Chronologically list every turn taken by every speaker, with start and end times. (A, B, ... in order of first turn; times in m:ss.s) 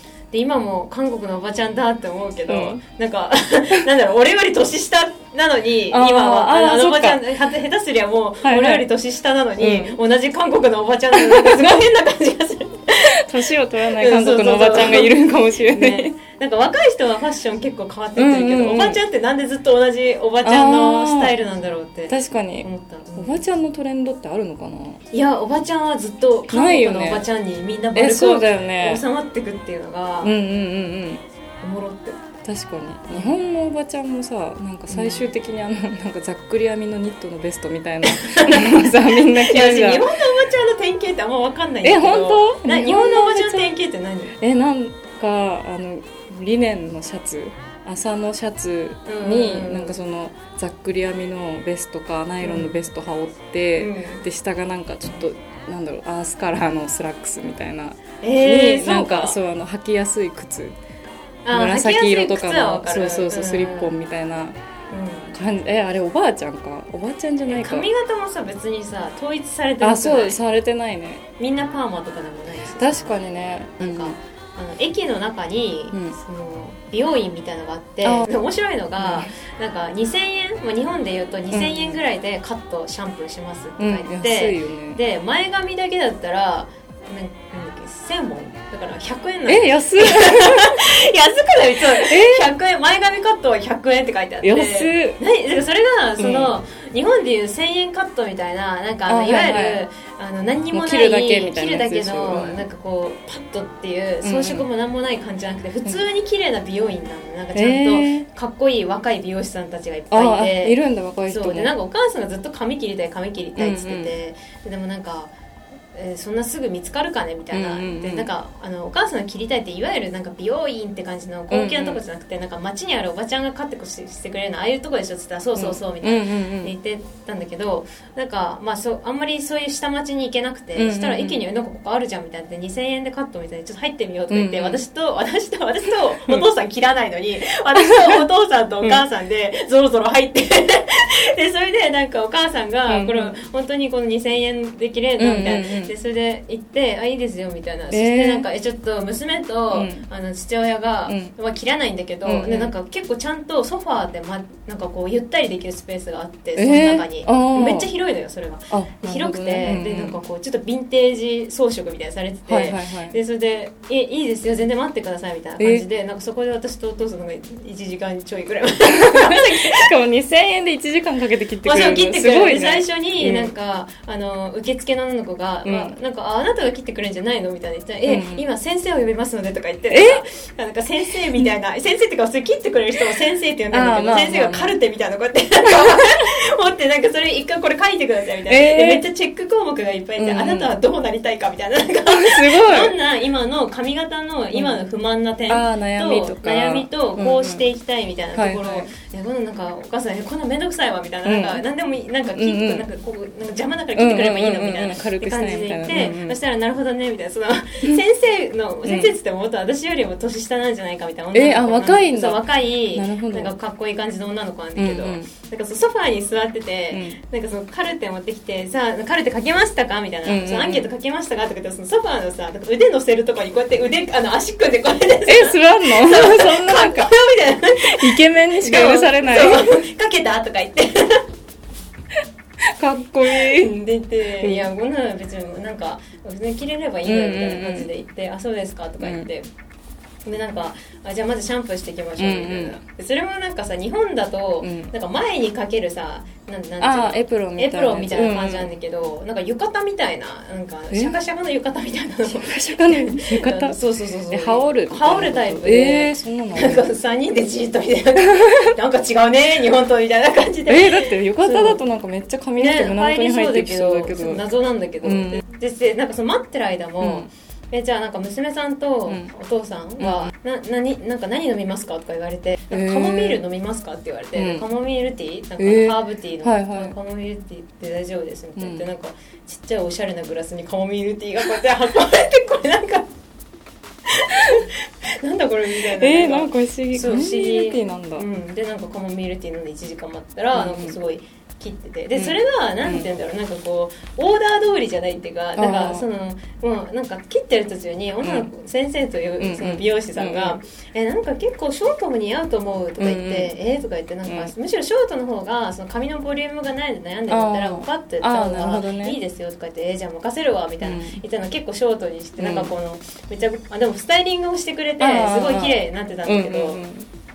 0:00.3-0:13.2 A
0:02.5-0:02.8 B
0:05.9-0:07.2 B
0:08.4-0:08.8 B
0:09.6-0:10.0 B
0:11.1-0:11.8 B
0:13.2-0:16.1 B
0:14.0-0:23.4 A
0:18.2-0:19.0 B
0:20.4-0:21.3 B
0:22.1-0:25.0 B
0:25.1-0:30.3 A
0:26.5-0:27.2 B
0:27.9-0:29.0 B
0:30.2-0:31.2 B
0:31.6-0:32.2 A
0:32.4-0:40.1 B
0:34.9-0:35.3 A
0:38.0-0:44.3 A
0:41.8-0:43.7 B
0:44.4-1:00.8 B
0:49.1-0:50.0 A
0:52.4-0:52.8 A
0:53.8-0:54.2 A
0:58.2-0:59.4 A
1:01.4-1:03.9 A
1:01.5-1:04.6 B
1:04.9-1:05.3 A
1:05.3-1:07.9 B
1:07.5-1:10.4 A
1:09.8-1:11.2 B
1:11.4-1:13.2 A
1:12.8-1:14.2 B
1:13.8-1:55.3 A
1:18.0-1:18.3 B
1:19.0-1:19.3 B
1:21.5-1:22.0 B
1:23.8-1:25.0 B
1:29.5-1:30.8 B
1:32.0-1:32.5 B
1:34.4-1:35.2 B
1:36.2-1:36.5 B
1:39.1-1:39.8 B
1:40.7-1:42.6 B
1:44.2-1:44.6 B
1:47.5-1:48.3 B
1:50.1-1:51.7 B
1:53.6-1:54.2 B
1:55.9-2:49.9 A
1:57.5-1:58.3 B
2:01.5-2:02.0 B
2:05.6-2:06.7 B
2:10.8-2:11.4 B
2:14.3-2:14.8 B
2:22.9-2:23.3 B
2:25.2-2:25.9 B
2:27.9-2:28.4 B
2:29.7-2:30.0 B
2:31.1-2:31.3 B
2:32.2-2:32.7 B
2:36.6-2:37.9 B
2:38.7-2:40.2 B
2:42.4-2:43.2 B
2:45.6-2:45.8 B
2:48.9-2:53.5 B
2:51.6-3:51.3 A
2:55.6-2:55.9 B
2:58.0-2:58.4 B
2:59.9-3:00.2 B
3:03.7-3:04.8 B
3:05.7-3:06.0 B
3:08.5-3:09.0 B
3:10.2-3:10.7 B
3:12.1-3:12.9 B
3:14.5-3:14.9 B
3:15.5-3:17.7 B
3:18.3-3:18.9 B
3:21.2-3:21.6 B
3:22.4-3:22.8 B
3:23.9-3:26.4 B
3:28.8-3:29.1 B
3:31.3-3:33.5 B
3:34.8-3:35.3 B
3:36.9-3:37.2 B
3:40.2-3:40.9 B
3:45.3-3:47.1 B
3:47.8-3:49.7 B
3:52.6-3:53.7 B
3:53.2-3:59.5 A
3:54.4-3:54.7 B
3:57.0-3:57.9 B
3:59.0-3:59.3 B
4:00.2-4:21.8 A
4:02.2-4:02.8 B
4:04.6-4:04.9 B
4:06.8-4:08.7 B
4:10.9-4:11.2 B
4:12.2-4:13.8 B
4:14.3-4:16.8 B
4:18.4-4:18.7 B
4:20.7-4:24.4 B
4:22.6-4:43.1 A
4:25.0-4:25.4 B
4:27.0-4:27.3 B
4:30.0-4:30.3 B
4:32.7-4:33.4 B
4:34.3-4:34.6 B
4:35.6-4:36.9 B
4:38.6-4:38.8 B
4:44.1-5:16.8 A
4:45.9-4:48.2 B
4:50.5-4:51.0 B
4:52.2-4:53.0 B
4:55.6-4:56.0 B
4:58.2-4:58.5 B
4:59.4-5:00.6 B
5:03.0-5:03.5 B
5:04.2-5:04.5 B
5:07.3-5:09.2 B
5:10.8-5:11.2 B
5:12.4-5:12.7 B
5:15.0-5:17.1 B